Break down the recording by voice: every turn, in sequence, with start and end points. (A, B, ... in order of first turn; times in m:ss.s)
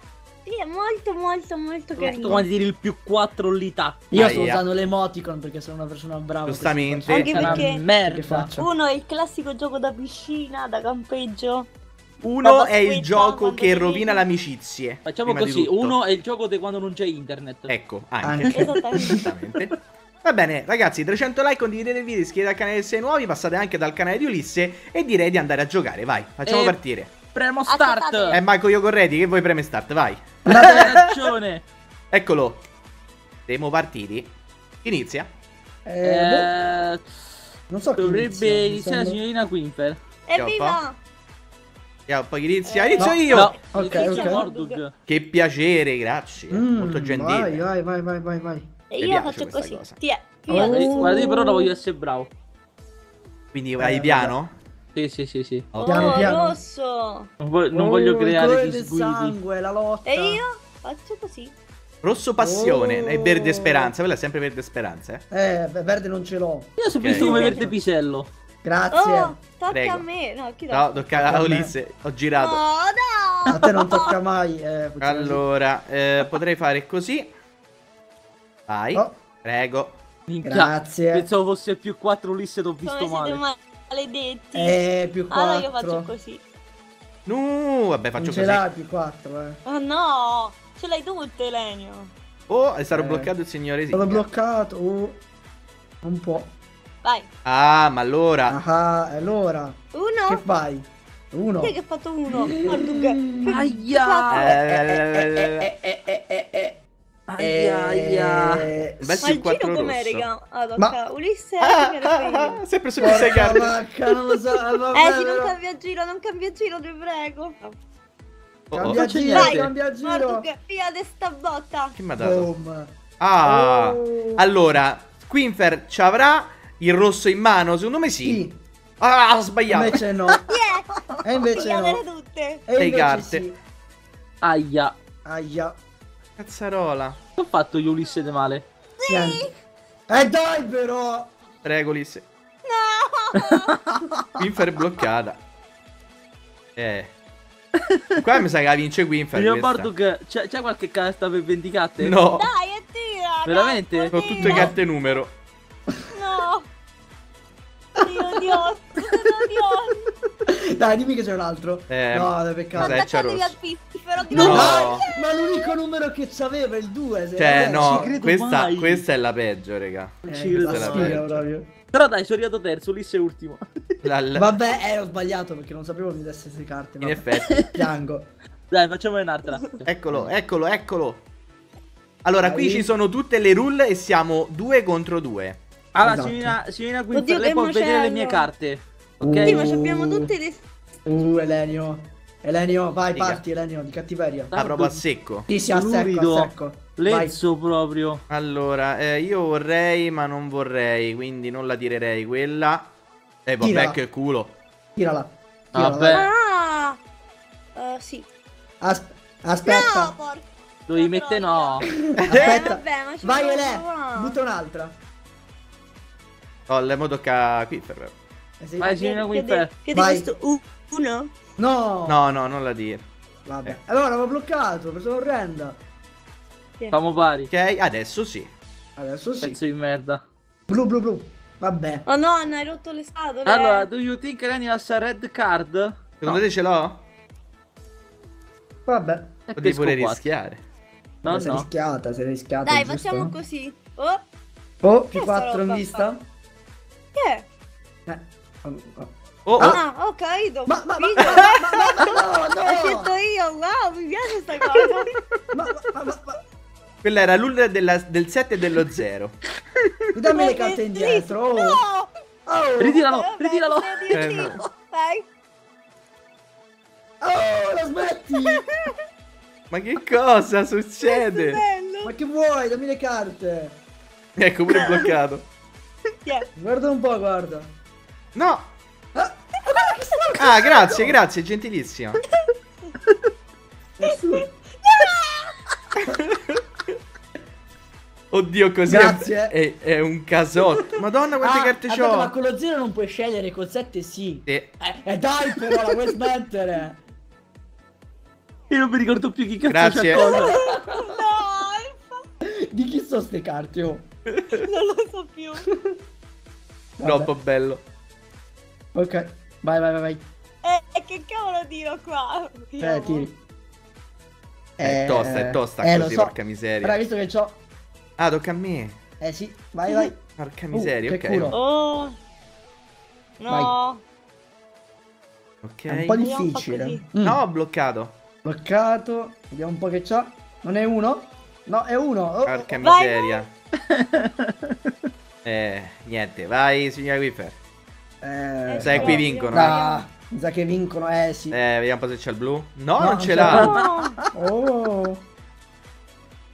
0:00.5-0:02.5 A
0:02.0-0:04.0 B
0:04.1-0:08.7 C
0:04.1-0:04.6 D
0:06.5-0:07.3 D
0:07.1-0:07.8 A
0:07.1-0:08.5 B
0:08.6-0:11.7 A
0:12.2-0:16.0 D
0:12.4-0:14.2 A
0:15.0-0:17.7 B
0:17.7-0:19.7 D
0:18.2-0:19.2 C
0:18.5-0:19.2 A
0:20.2-0:27.1 D
0:26.5-0:26.8 B
0:27.3-0:28.4 B
0:27.7-0:28.4 A
0:28.3-0:30.9 D
0:30.5-0:30.9 C
0:30.6-0:31.6 B
0:32.1-0:32.6 D
0:33.5-0:34.3 D
0:34.8-0:35.3 D
0:35.8-0:36.5 C
0:36.0-0:37.0 B
0:37.7-0:39.2 C
0:38.0-0:40.0 B
0:40.3-0:41.0 A
0:40.4-0:40.8 D
0:42.1-0:43.5 D
0:42.6-0:44.8 A
0:43.0-0:44.4 C
0:43.3-0:44.9 B
0:45.1-0:47.6 D
0:46.5-0:48.7 C
0:48.9-0:51.7 A
0:49.0-0:50.0 D
0:50.5-0:51.6 C
0:50.5-0:52.3 B
0:53.5-0:54.6 D
0:53.8-0:54.4 C
0:55.0-0:55.7 B
0:55.7-0:56.3 D
0:55.8-0:57.3 A
0:55.8-0:56.6 C
0:57.4-0:59.4 B
0:57.7-1:00.4 C
1:00.0-1:01.6 A
1:02.0-1:05.2 D
1:02.4-1:03.9 C
1:05.3-1:07.6 C
1:06.8-1:08.3 B
1:07.0-1:07.4 D
1:07.2-1:07.7 A
1:08.6-1:09.4 C
1:08.9-1:11.1 A
1:09.7-1:10.0 D
1:10.7-1:12.6 D
1:11.2-1:11.7 C
1:12.4-1:14.2 A
1:13.5-1:15.4 C
1:15.0-1:17.3 D
1:18.7-1:20.0 D
1:20.3-1:23.4 B
1:20.4-1:21.3 C
1:22.8-1:24.8 A
1:24.6-1:26.1 C
1:25.3-1:26.4 A
1:27.3-1:28.6 D
1:28.2-1:29.6 C
1:29.7-1:32.1 A
1:32.5-1:34.2 D
1:32.9-1:33.3 C
1:33.9-1:35.2 C
1:36.0-1:36.5 C
1:37.5-1:38.6 D
1:38.5-1:41.8 C
1:39.9-1:40.4 A
1:41.6-1:44.6 A
1:42.3-1:43.7 C
1:43.4-1:44.6 B
1:44.3-1:45.7 D
1:44.7-1:46.8 C
1:47.3-1:48.7 B
1:47.4-1:49.1 C
1:49.0-1:50.3 D
1:49.2-1:52.6 A
1:51.6-1:53.7 D
1:53.0-1:55.6 C
1:54.9-1:57.8 A
1:58.7-1:59.0 D
1:58.7-2:00.5 C
1:59.0-1:59.7 B
1:59.3-2:02.0 A
2:02.0-2:02.5 D
2:02.2-2:04.4 C
2:03.2-2:08.4 D
2:08.2-2:08.6 C
2:09.0-2:10.0 D
2:09.7-2:10.5 C
2:10.4-2:12.6 A
2:11.2-2:12.0 C
2:12.7-2:13.6 C
2:12.8-2:13.5 D
2:14.4-2:14.9 B
2:15.2-2:15.8 C
2:16.4-2:17.2 D
2:17.4-2:18.7 B
2:19.0-2:19.5 A
2:19.1-2:19.4 C
2:20.1-2:21.3 C
2:21.6-2:22.3 D
2:22.6-2:23.9 A
2:23.4-2:24.0 B
2:24.4-2:25.4 D
2:26.8-2:27.1 D
2:28.2-2:29.9 D
2:29.3-2:32.2 B
2:32.0-2:32.5 D
2:32.3-2:34.7 A
2:33.5-2:34.7 B
2:34.1-2:35.3 D
2:34.4-2:34.7 C
2:36.1-2:36.7 A
2:38.0-2:40.1 A
2:40.5-2:43.0 C
2:41.9-2:43.6 D
2:42.8-2:45.7 A
2:44.3-2:45.0 D
2:44.3-2:48.2 C
2:47.4-2:51.4 D
2:47.8-2:49.0 B
2:50.2-2:51.2 B
2:50.3-2:51.7 C
2:51.9-2:53.6 B
2:54.0-2:54.5 D
2:54.4-2:58.3 C
2:57.0-2:57.6 D
2:58.7-2:59.9 B
2:59.8-3:01.2 D
3:02.2-3:05.6 D
3:02.4-3:02.9 C
3:06.0-3:09.7 B
3:06.0-3:06.6 C
3:07.1-3:08.5 A
3:09.2-3:10.3 C
3:09.5-3:10.6 A
3:11.1-3:14.5 C
3:13.1-3:13.4 D
3:14.5-3:15.0 B
3:14.6-3:15.5 D
3:15.5-3:17.4 C
3:15.7-3:18.2 B
3:18.3-3:22.9 D
3:23.5-3:24.6 D
3:23.6-3:24.0 C
3:25.0-3:26.3 C
3:25.7-3:26.3 B
3:26.1-3:27.0 A
3:27.8-3:28.3 A
3:28.8-3:30.2 C
3:29.6-3:34.4 A
3:30.9-3:31.9 B
3:31.8-3:35.0 C
3:32.3-3:32.6 D
3:36.7-3:38.2 D
3:38.6-3:38.9 C
3:38.8-3:39.7 B
3:38.8-3:41.3 A
3:39.9-3:40.3 C
3:41.6-3:42.2 C
3:42.1-3:43.1 D
3:43.5-3:45.8 C
3:46.9-3:47.5 B
3:47.5-3:48.5 D
3:49.0-3:49.6 C
3:49.4-3:50.2 B
3:50.7-3:52.1 C
3:52.1-3:53.9 A
3:53.5-3:56.0 B
3:56.2-3:57.0 D
3:58.9-3:59.4 C
3:59.5-4:00.3 B
3:59.6-4:00.6 D
4:01.2-4:01.7 B
4:01.3-4:03.4 C
4:02.6-4:04.2 A
4:04.8-4:06.3 C
4:05.1-4:06.1 A
4:07.2-4:07.4 A
4:08.1-4:09.8 C
4:09.5-4:09.8 D
4:09.6-4:15.1 A
4:10.7-4:13.1 C
4:15.5-4:16.4 C
4:17.0-4:19.4 D
4:20.1-4:21.8 C
4:20.3-4:22.1 A
4:22.5-4:23.1 C
4:22.8-4:24.6 B
4:23.0-4:25.2 A
4:24.1-4:24.6 D
4:27.2-4:28.6 C
4:28.5-4:28.9 A
4:29.7-4:31.6 D
4:31.0-4:32.1 A
4:32.0-4:33.8 C
4:34.4-4:35.4 D
4:34.7-4:35.2 A
4:36.6-4:37.7 C
4:38.4-4:38.7 D
4:39.2-4:41.2 C
4:40.4-4:42.2 D
4:42.4-4:43.0 A
4:44.0-4:44.5 C
4:44.8-4:45.6 A
4:46.1-4:46.6 D
4:48.3-4:52.3 D
4:48.9-4:49.5 C
4:51.4-4:57.0 C
4:54.5-4:54.7 D
4:58.7-5:00.5 B
4:59.7-5:00.2 D
5:00.2-5:02.2 A
5:00.2-5:01.0 C
5:02.7-5:04.1 C
5:04.5-5:05.6 A
5:07.0-5:07.3 C
5:07.0-5:07.8 D
5:08.9-5:10.2 C
5:10.6-5:13.3 A
5:12.8-5:13.4 C
5:14.8-5:17.6 C
5:14.8-5:17.0 D
5:18.2-5:19.0 D
5:19.2-5:20.2 C
5:20.4-5:21.5 D
5:20.7-5:21.6 C
5:21.5-5:22.2 A
5:23.4-5:24.0 A
5:23.5-5:23.7 C
5:25.6-5:26.2 D
5:25.9-5:27.4 C
5:26.2-5:27.0 A
5:27.2-5:28.2 D
5:28.4-5:32.7 C
5:32.5-5:33.5 D
5:32.8-5:33.4 A
5:33.9-5:34.6 B
5:35.4-5:37.6 D
5:38.2-5:41.6 C
5:38.7-5:40.0 A
5:38.8-5:39.9 D
5:41.5-5:43.7 D
5:43.0-5:45.2 C
5:43.5-5:44.2 A